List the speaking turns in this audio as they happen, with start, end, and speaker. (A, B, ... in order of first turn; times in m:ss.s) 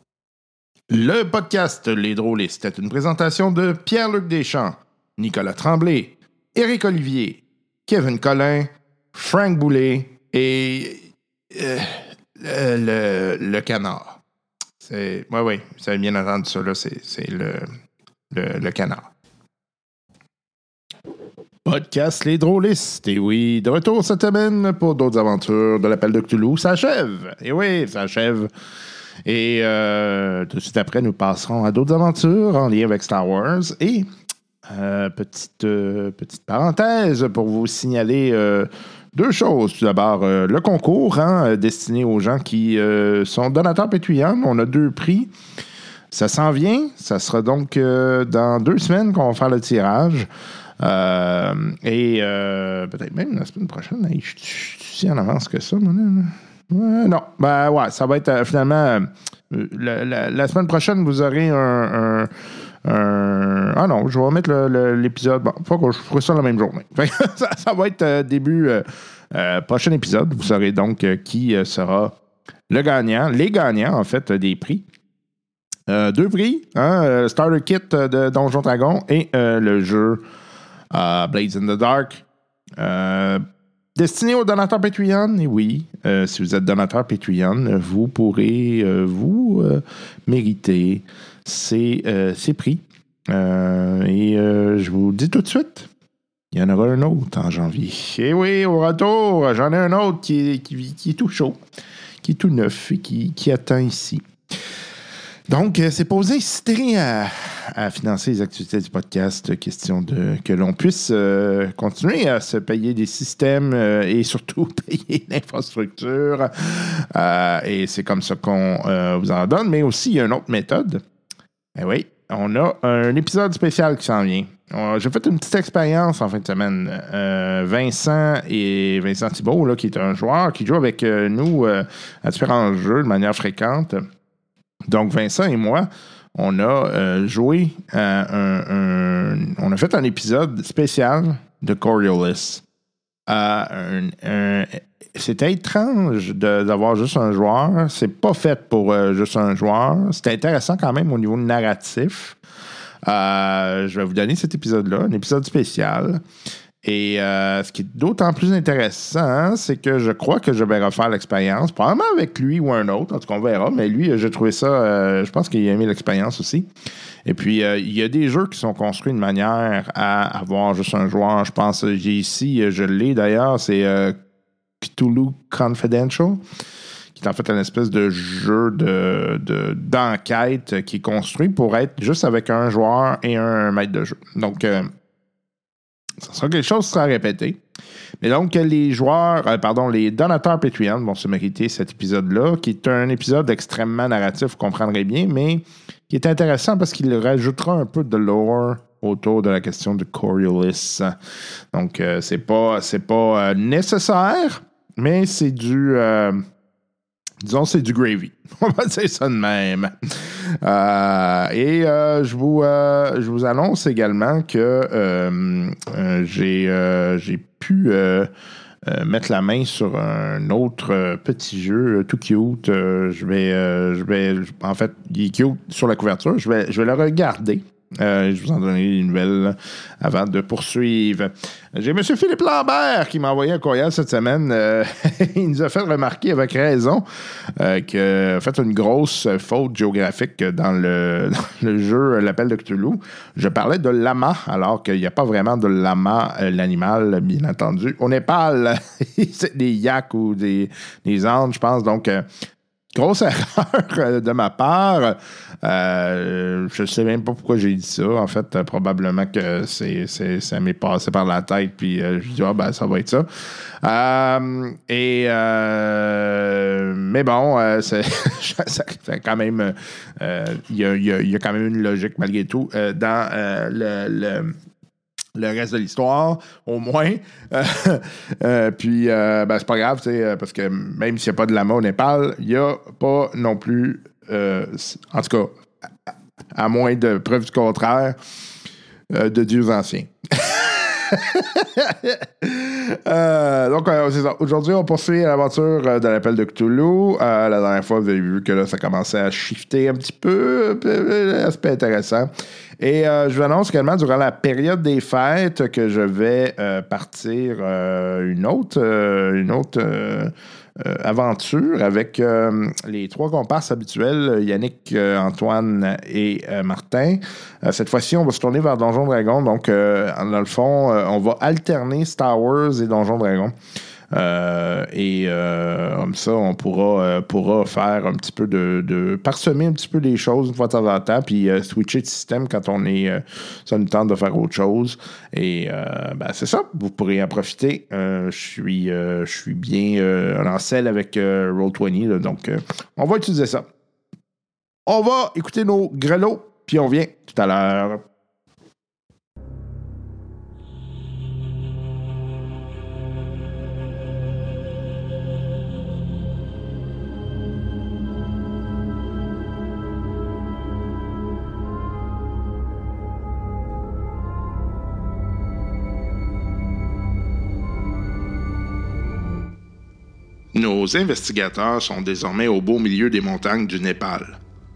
0:00.9-0:14.2 A
0:14.8-0:17.7 A
0:18.3-0:19.1 A
0:21.6-0:28.5 A
0:29.2-0:34.1 A
0:34.7-0:45.3 A
0:46.1-0:50.3 A
0:50.8-1:02.3 A
1:02.8-1:12.2 A
1:12.7-1:14.8 A
1:15.9-1:20.2 A
1:20.9-1:22.2 A
1:22.8-1:23.4 A
1:24.0-1:35.9 A
1:36.5-1:41.6 A
1:42.2-1:44.2 A
1:45.5-2:01.0 A
2:01.8-2:14.1 A
2:14.9-2:22.6 A
2:23.3-2:32.4 A
2:33.1-2:36.2 A
2:36.8-2:46.7 A
2:47.2-2:54.2 A
2:54.8-2:56.4 A
2:57.1-3:04.9 A
3:06.2-3:07.6 A
3:08.2-3:21.2 A
3:21.7-3:26.4 A
3:27.4-3:38.3 A
3:38.8-4:12.2 A
4:12.9-4:23.3 A
4:23.8-4:34.6 A
4:35.4-4:45.6 A
4:46.5-4:48.2 A
4:49.1-5:02.3 A
5:02.8-5:23.6 A
5:24.1-5:43.7 A
5:44.9-5:48.0 A
6:10.5-6:14.4 A